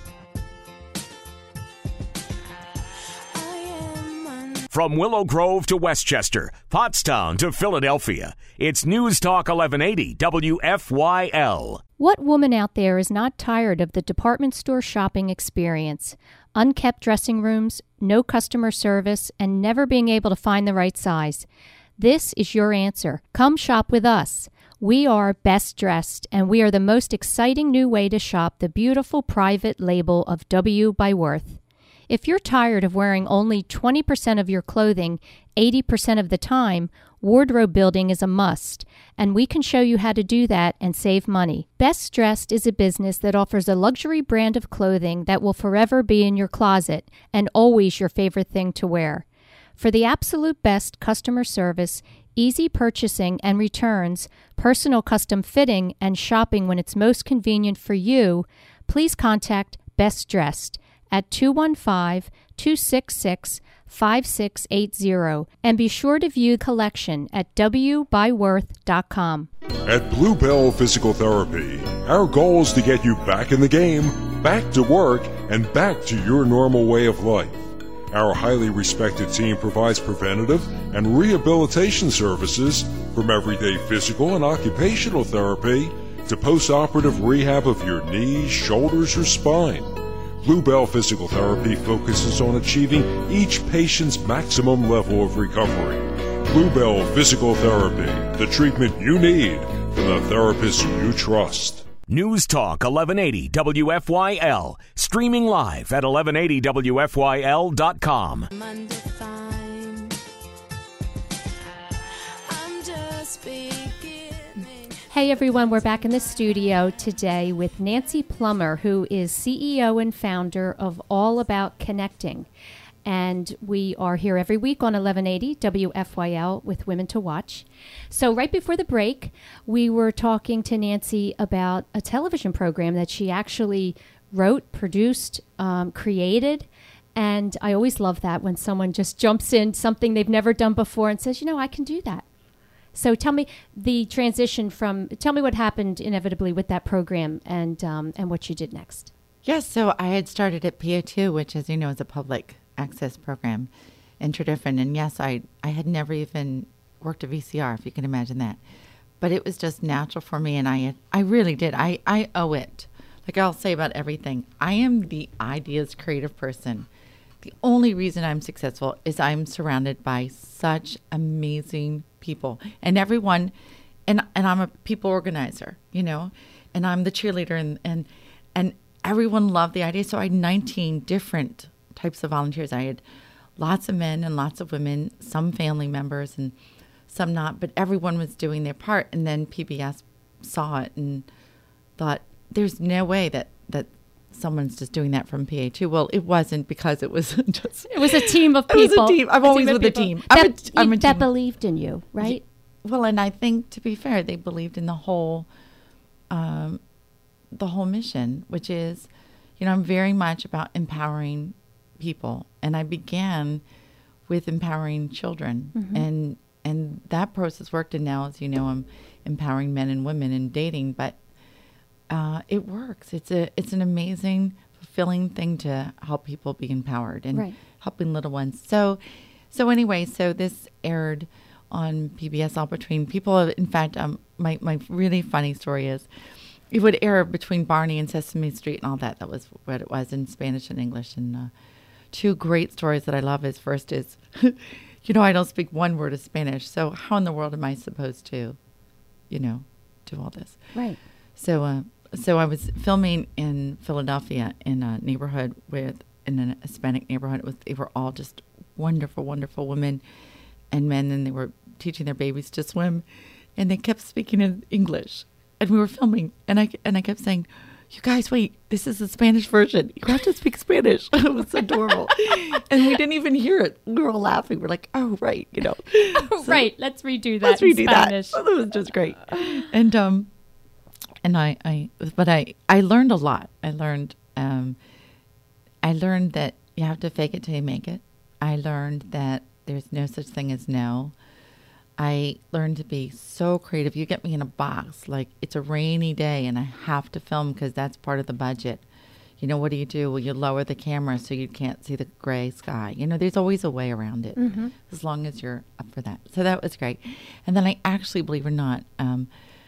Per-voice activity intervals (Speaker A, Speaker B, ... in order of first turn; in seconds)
Speaker A: 3.3-4.7, 108.5-110.2, 112.5-115.1
Speaker B: 4.7-11.8, 102.1-108.5
Speaker C: 12.0-21.4, 22.0-49.2, 49.8-69.5, 115.1-122.5, 123.0-142.2, 142.9-149.1, 197.9-202.4, 215.7-216.0, 250.7-251.0, 276.1-278.4, 304.4-304.7
Speaker D: 69.8-101.8
Speaker E: 149.4-153.7, 154.2-158.6, 159.2-166.9, 167.4-173.5, 174.1-183.0, 183.6-186.6, 187.1-191.2, 192.0-201.3, 202.2-205.5, 206.3-206.8, 207.5-213.6, 214.3-221.2, 222.1-236.1, 236.7-241.5, 242.1-248.6, 249.3-250.6, 251.3-260.0, 260.7-276.7, 277.4-280.3, 281.2-284.8, 285.8-291.1, 292.0-298.8, 299.4-309.3